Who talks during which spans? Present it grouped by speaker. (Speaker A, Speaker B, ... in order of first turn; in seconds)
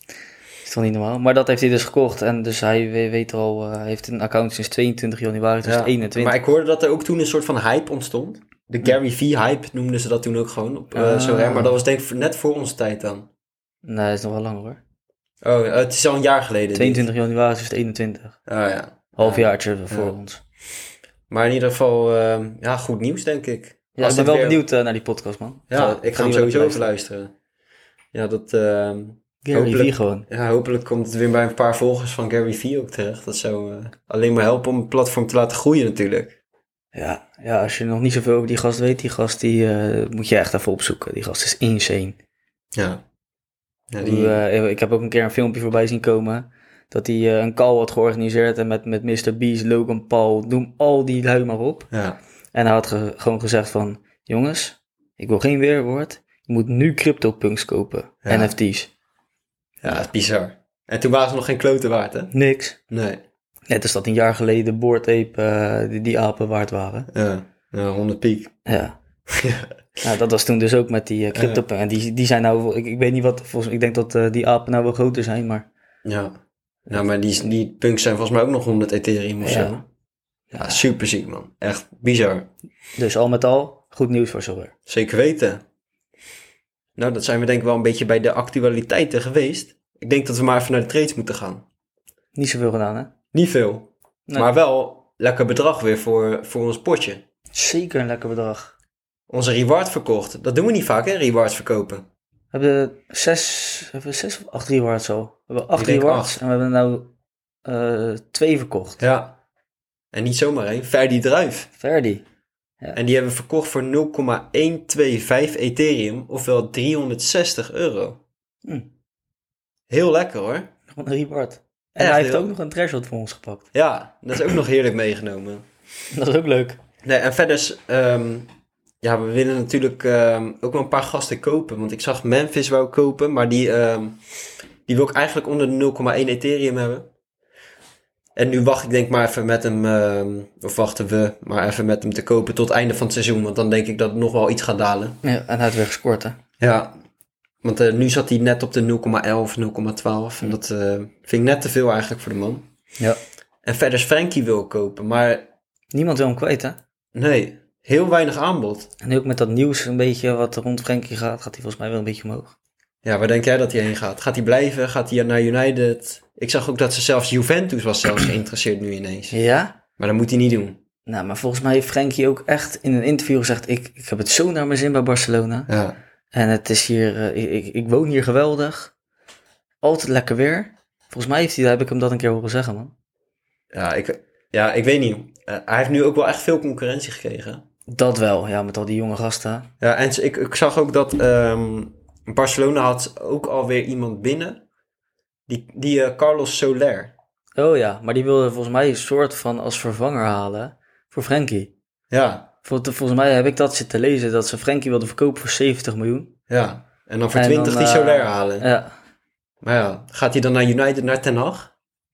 Speaker A: 0.6-6.4, 10.9-11.8, 13.8-14.8, 16.7-18.4, 19.2-20.4, 24.0-26.9, 29.5-30.3, 36.9-42.2, 44.0-51.9, 52.5-58.9, 62.3-62.8, 63.7-67.1, 68.7-69.0, 70.0-75.7, 79.4-79.8, 80.5-80.8, 83.0-84.7, 92.3-93.1, 97.5-98.7, 102.5-107.1, 107.7-109.0, 111.8-112.2, 120.9-123.7, 126.1-126.8, 145.2-146.4, 155.9-156.8, 159.0-162.5, 169.3-169.8, 171.1-175.7, 176.3-178.9, 179.8-182.9, 187.9-189.7, 197.6-201.7, 202.6-206.3, 207.3-208.9
Speaker B: 5.6-13.3, 15.4-17.1, 18.5-20.1, 21.3-24.6, 25.7-27.3, 28.1-36.4, 42.8-43.0, 43.9-44.4, 51.9-52.2, 58.2-58.5, 59.8-62.3, 62.9-63.2, 67.1-68.5, 69.3-69.7, 71.3-71.6, 76.0-76.4, 76.9-79.8, 80.6-82.5, 84.9-85.6, 87.0-91.6, 93.3-97.2, 99.3-102.1, 105.8-106.4, 109.0-109.4, 110.1-111.7, 112.9-118.2, 119.9-120.7, 122.0-122.5, 123.7-125.7, 127.0-128.5, 129.0-134.2, 134.9-137.1, 138.4-145.2, 146.6-146.9, 147.6-152.7, 153.6-155.5, 157.2-158.9, 163.0-169.4, 170.0-170.8, 175.7-176.0, 183.7-187.6, 189.8-194.6, 195.5-197.1, 202.1-202.5, 206.5-208.7, 209.6-211.7